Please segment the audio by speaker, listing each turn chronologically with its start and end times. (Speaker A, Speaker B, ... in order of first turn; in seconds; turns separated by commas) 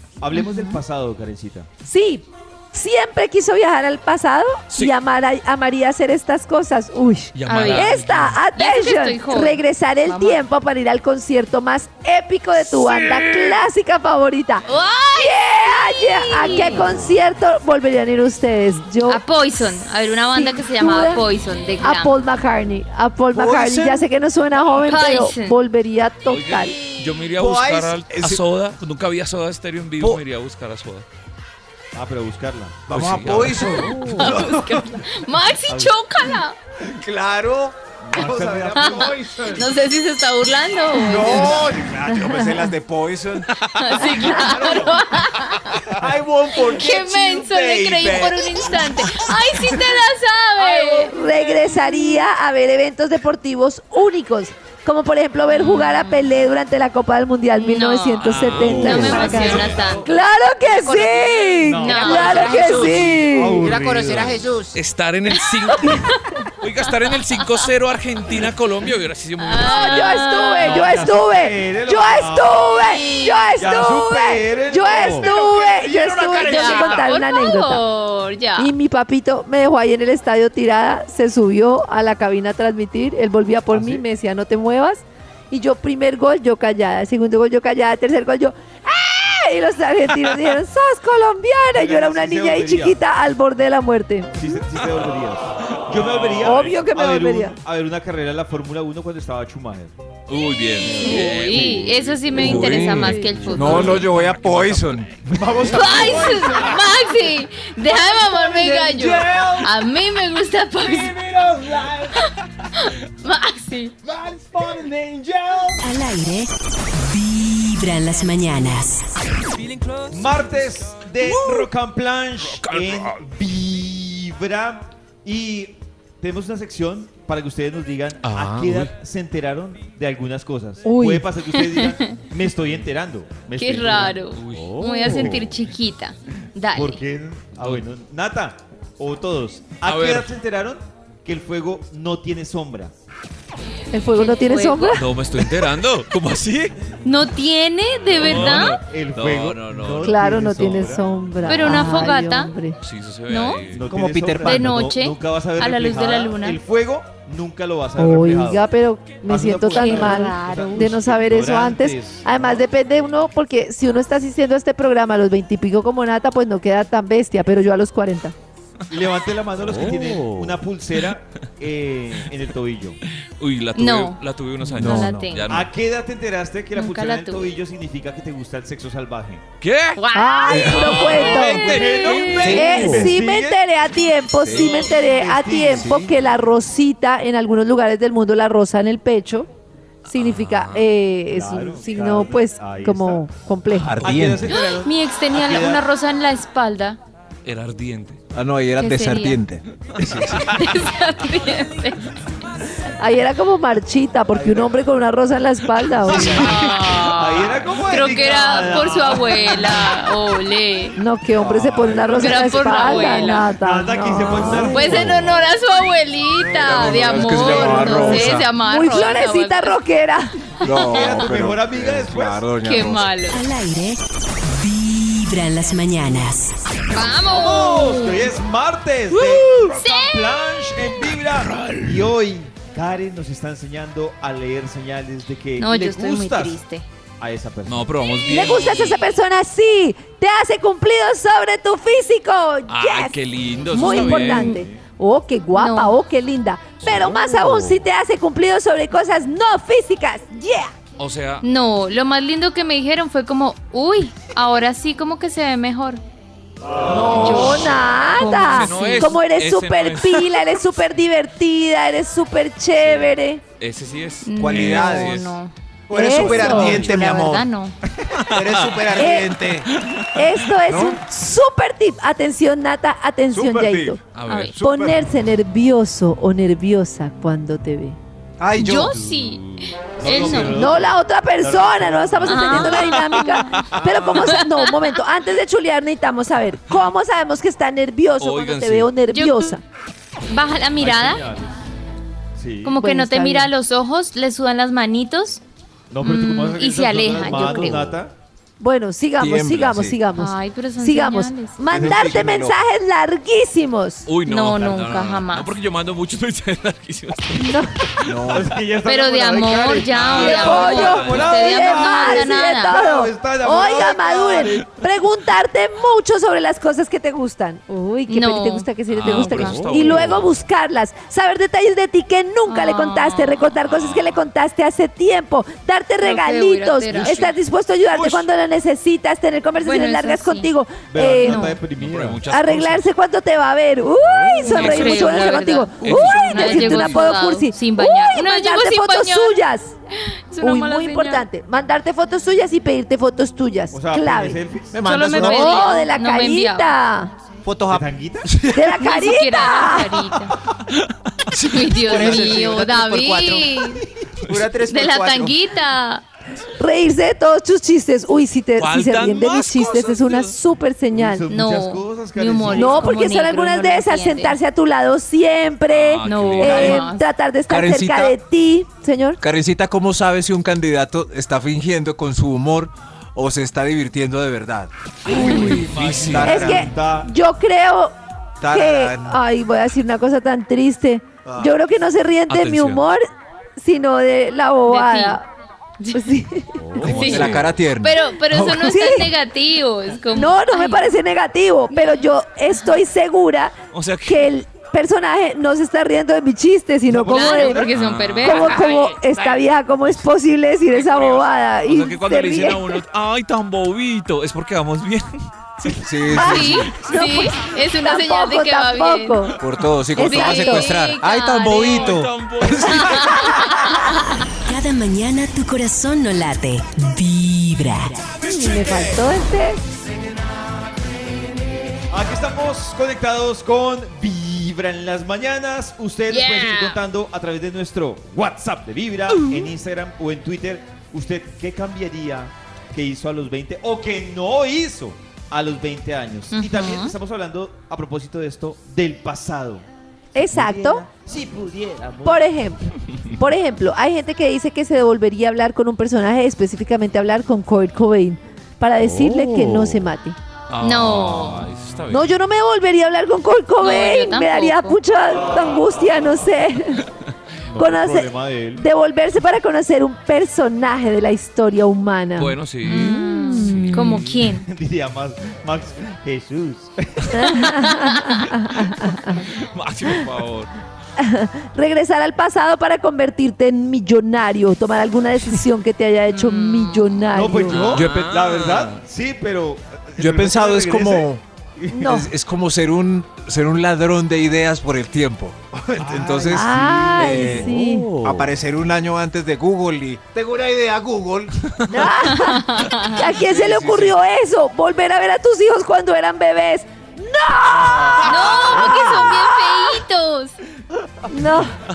Speaker A: 0.2-1.7, Speaker B: 0.3-0.8, Speaker C: 1.8-21.2, Speaker D: 7.3-8.4, Speaker B: 7.5-7.9, Speaker B: 8.5-10.4, Speaker D: 12.6-13.6, Speaker B: 14.7-16.9, Speaker B: 19.0-22.1, Speaker C: 21.8-26.8, Speaker E: 23.3-24.1, Speaker B: 24.8-25.6, Speaker D: 26.2-31.1, Speaker E: 27.4-28.4, Speaker A: 31.9-32.8, Speaker E: 32.9-34.9, Speaker D: 32.9-34.3, Speaker B: 33.6-36.5, Speaker A: 35.7-36.0, Speaker E: 36.8-39.7, Speaker A: 38.0-39.2, Speaker B: 38.8-42.7, Speaker E: 40.9-43.5, Speaker D: 43.7-44.2, Speaker B: 43.8-45.9, Speaker E: 44.0-45.0, Speaker C: 44.2-44.8, Speaker E: 45.9-48.6, Speaker B: 46.5-51.2, Speaker C: 51.0-63.7, Speaker B: 55.5-56.3, Speaker B: 57.5-60.1, Speaker D: 58.2-60.0, Speaker A: 59.0-59.8, Speaker B: 60.6-63.0, Speaker A: 61.6-64.4, Speaker F: 61.9-64.7, Speaker D: 64.7-66.1, Speaker D: 66.6-70.1, Speaker B: 69.4-70.8, Speaker C: 69.6-77.8, Speaker A: 70.6-72.6, Speaker B: 72.8-73.5, Speaker A: 73.5-75.3, Speaker E: 75.9-76.3, Speaker B: 76.4-78.7, Speaker C: 78.6-94.4, Speaker A: 83.7-84.0, Speaker A: 91.7-93.0, Speaker A: 94.3-99.9, Speaker D: 95.9-96.8, Speaker C: 96.3-97.6, Speaker D: 100.3-106.7, Speaker A: 100.8-102.8, Speaker B: 101.0-104.1, Speaker E: 102.3-106.4, Speaker C: 103.0-103.9, Speaker A: 105.3-106.3, Speaker B: 105.7-111.2, Speaker E: 108.8-109.7, Speaker E: 111.0-112.0, Speaker B: 112.8-113.9, Speaker E: 114.0-115.8, Speaker G: 115.8-119.1, Speaker A: 120.1-134.2, Speaker D: 122.4-123.2, Speaker D: 128.2-128.9, Speaker C: 130.8-131.3, Speaker B: 131.6-131.9, Speaker B: 133.6-137.0, Speaker D: 134.3-134.9, Speaker A: 134.9-135.5, Speaker C: 135.0-135.4, Speaker A: 136.7-142.9, Speaker D: 139.8-140.3, Speaker C: 143.9-145.1, Speaker B: 144.1-145.0, Speaker D: 144.9-146.8, Speaker B: 147.0-148.8, Speaker D: 148.2-150.1, Speaker A: 148.2-151.1, Speaker C: 150.0-152.8, Speaker B: 151.4-152.5, Speaker D: 152.8-153.8, Speaker B: 153.3-153.6, Speaker A: 153.7-158.7, Speaker E: 153.9-154.7, Speaker B: 154.4-156.6, Speaker C: 158.0-168.3, Speaker A: 159.3-162.6, Speaker B: 159.7-160.9, Speaker A: 168.9-173.0, Speaker E: 169.9-170.3, Speaker D: 173.4-175.7, Speaker B: 173.8-174.2, Speaker E: 174.6-175.3, Speaker B: 174.8-175.5, Speaker A: 175.5-179.4, Speaker B: 176.7-177.5, Speaker D: 179.6-180.0, Speaker B: 179.9-182.5, Speaker C: 180.1-181.8, Speaker E: 180.4-183.1, Speaker D: 180.6-182.9, Speaker A: 181.2-183.6, Speaker C: 182.4-189.5, Speaker E: 184.4-184.8, Speaker D: 184.5-185.0, Speaker A: 184.6-186.1, Speaker E: 185.7-186.1, Speaker C: 190.0-194.0, Speaker D: 190.1-190.9, Speaker A: 191.3-193.3, Speaker E: 193.7-194.6, Speaker A: 194.0-195.8, Speaker B: 194.4-197.0, Speaker D: 197.4-198.2, Speaker E: 198.3-200.5, Speaker B: 198.8-199.4, Speaker D: 199.8-200.5, Speaker B: 200.5-202.2, Speaker C: 203.0-206.6, Speaker A: 204.3-204.7, Speaker A: 206.0-209.8, Speaker D: 206.2-207.6, Speaker B: 206.2-211.0, Speaker C: 210.9-215.2, Speaker A: 211.3-213.0, Speaker B: 212.1-213.5, Speaker A: 213.6-215.4, Speaker E: 214.6-214.9, Speaker B: 214.6-219.8, Speaker E: 216.6-218.5, Speaker A: 217.1-218.1, Speaker C: 217.3-220.3, Speaker E: 220.6-223.1, Speaker A: 220.9-222.5, Speaker B: 222.6-223.4, Speaker G: 223.3-226.6, Speaker B: 226.9-228.3, Speaker A: 227.2-236.6, Speaker B: 229.6-230.3, Speaker B: 235.6-236.9, Speaker A: 237.2-237.9, Speaker D: 237.7-238.9, Speaker C: 238.2-243.2, Speaker B: 238.4-239.2, Speaker D: 242.7-244.5, Speaker A: 243.6-244.8, Speaker C: 243.7-250.7, Speaker B: 244.3-244.6, Speaker B: 245.5-245.9, Speaker D: 246.8-247.1, Speaker D: 251.0-251.4, Speaker B: 251.4-256.0, Speaker C: 256.8-263.4, Speaker B: 256.9-259.1, Speaker D: 257.2-257.5, Speaker D: 258.2-260.4, Speaker D: 262.8-263.1, Speaker D: 263.6-265.3, Speaker B: 264.2-265.5, Speaker E: 264.4-265.3, Speaker E: 265.9-267.5, Speaker C: 265.9-266.9, Speaker B: 266.1-267.8, Speaker D: 266.4-267.0, Speaker D: 268.1-268.9, Speaker E: 268.3-269.7, Speaker C: 268.9-269.3, Speaker D: 269.8-270.1, Speaker C: 270.1-274.0, Speaker E: 270.7-271.0, Speaker E: 273.3-274.0, Speaker D: 274.1-274.5, Speaker B: 274.3-274.5, Speaker E: 274.5-275.0, Speaker C: 274.6-278.0, Speaker E: 278.4-279.0, Speaker B: 278.6-280.6, Speaker D: 278.8-279.4, Speaker A: 280.0-283.1, Speaker C: 280.1-289.6, Speaker B: 282.2-283.5, Speaker A: 283.7-284.4, Speaker B: 284.2-284.8, Speaker D: 288.2-288.9, Speaker B: 289.1-289.6, Speaker B: 290.3-291.2, Speaker A: 290.8-291.5, Speaker A: 292.4-292.7, Speaker B: 292.6-295.4, Speaker C: 292.7-293.5, Speaker A: 295.9-298.1, Speaker B: 296.0-297.8, Speaker C: 297.2-297.9, Speaker C: 298.6-304.1, Speaker E: 299.2-300.0, Speaker B: 300.1-301.6, Speaker E: 301.7-302.6, Speaker D: 304.1-307.6, Speaker B: 304.2-305.5, Speaker C: 307.4-307.7, Speaker E: 308.0-308.5, Speaker A: 308.3-314.8, Speaker B: 308.9-312.8, Speaker D: 309.9-311.3, Speaker C: 310.1-331.6, Speaker B: 318.1-319.6, Speaker D: 318.9-320.3, Speaker B: 322.4-323.5, Speaker D: 323.6-324.2, Speaker B: 326.0-327.2, Speaker D: 326.9-327.3, Speaker A: 327.9-328.2, Speaker B: 329.6-330.5, Speaker A: 330.9-332.3, Speaker B: 331.2-331.6, Speaker D: 331.7-332.9, Speaker C: 332.3-339.7, Speaker D: 334.4-337.2, Speaker B: 334.5-339.4, Speaker B: 340.1-341.2, Speaker C: 340.4-344.4, Speaker A: 343.7-345.4, Speaker E: 344.7-345.6, Speaker B: 344.8-346.7, Speaker C: 345.2-347.1, Speaker E: 347.4-348.8, Speaker A: 347.7-348.4, Speaker C: 348.5-349.9, Speaker B: 348.8-350.4, Speaker E: 351.3-355.4, Speaker B: 351.4-353.8, Speaker D: 354.2-354.5, Speaker B: 354.6-356.0, Speaker C: 356.6-361.3, Speaker D: 358.6-360.4, Speaker A: 360.9-363.0, Speaker B: 361.3-364.4, Speaker C: 362.4-369.2, Speaker D: 365.7-366.8, Speaker B: 366.0-367.0, Speaker E: 367.5-368.2, Speaker E: 369.2-376.7, Speaker C: 375.1-375.5, Speaker D: 375.2-376.5, Speaker A: 375.4-377.1, Speaker C: 376.2-377.9, Speaker E: 378.4-379.2, Speaker C: 378.4-383.0, Speaker E: 381.2-381.5, Speaker D: 382.3-382.8, Speaker C: 383.6-385.2, Speaker B: 384.7-385.2, Speaker B: 385.8-386.1, Speaker C: 385.9-387.2, Speaker D: 386.8-387.6, Speaker B: 386.8-390.9, Speaker E: 386.9-388.0, Speaker C: 388.3-389.1, Speaker C: 390.1-393.5, Speaker B: 391.7-392.7, Speaker D: 393.7-394.3, Speaker C: 394.1-397.6, Speaker A: 396.9-397.7, Speaker B: 397.1-398.9, Speaker D: 397.7-400.0, Speaker C: 398.2-402.8, Speaker D: 400.7-406.7, Speaker E: 405.8-406.6, Speaker C: 406.1-409.4, Speaker B: 406.2-409.3, Speaker E: 409.4-413.6, Speaker C: 409.9-410.7, Speaker B: 410.0-412.0, Speaker D: 411.5-413.3, Speaker B: 413.0-413.9, Speaker G: 414.4-418.1, Speaker C: 418.2-419.6, Speaker A: 421.9-439.6, Speaker B: 426.1-426.8, Speaker B: 436.3-436.9, Speaker C: 440.1-440.9, Speaker A: 440.3-442.6, Speaker C: 442.0-450.1, Speaker D: 450.5-452.1, Speaker B: 450.6-451.5, Speaker C: 451.9-456.8, Speaker B: 453.6-454.8, Speaker A: 457.4-458.6, Speaker C: 457.6-462.9, Speaker D: 462.2-464.2, Speaker B: 462.6-464.5, Speaker A: 464.4-467.7, Speaker C: 467.1-469.1, Speaker B: 467.7-468.2, Speaker D: 469.2-470.5, Speaker C: 471.0-477.9, Speaker B: 476.1-477.1, Speaker A: 477.1-481.8, Speaker D: 477.5-478.8, Speaker E: 480.0-481.2, Speaker C: 481.7-482.1, Speaker E: 481.8-491.8, Speaker A: 485.8-486.3, Speaker C: 486.2-488.0, Speaker C: 491.7-498.5, Speaker B: 492.2-492.9, Speaker D: 492.9-493.9, Speaker B: 498.0-500.4, Speaker D: 498.4-498.7, Speaker C: 501.1-501.6